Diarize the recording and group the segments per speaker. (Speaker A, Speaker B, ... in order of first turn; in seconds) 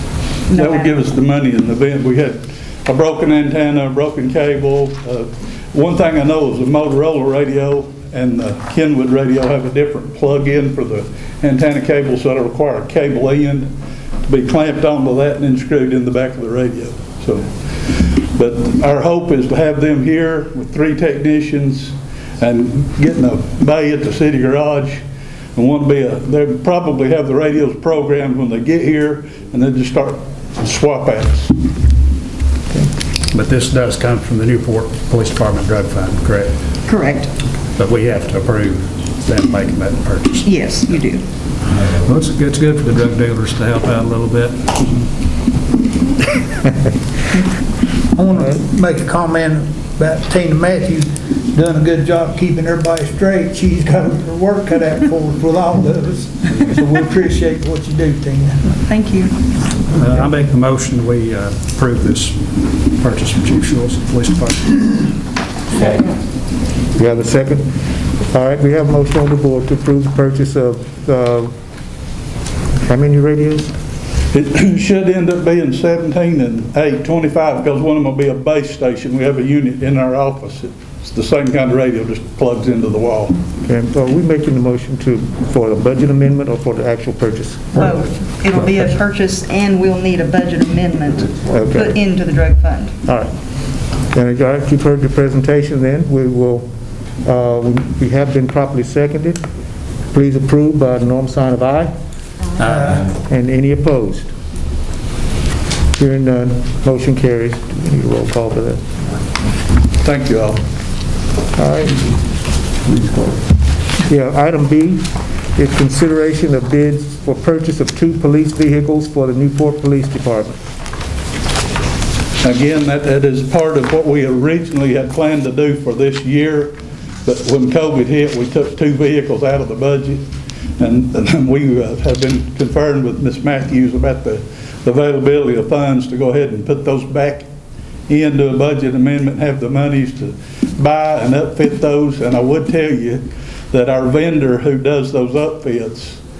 Speaker A: 0.5-0.9, 36.9-37.3, 40.4-41.2, 58.9-59.3, 87.7-92.9
Speaker B: 0.5-13.7, 14.3-25.0, 25.5-31.6, 74.3-83.3, 110.0-110.6, 122.4-126.7, 127.2-130.2, 130.8-137.5, 138.1-146.2
Speaker C: 33.3-36.5, 37.8-40.5, 41.7-45.1, 59.9-64.9
Speaker D: 48.1-58.7, 102.6-103.1
Speaker E: 67.0-71.5, 72.8-73.7, 83.7-87.9, 91.5-92.0, 93.0-93.3, 94.1-96.7, 97.2-99.4, 100.1-101.9, 103.2-104.3, 106.0-108.9, 111.5-112.0, 114.0-120.6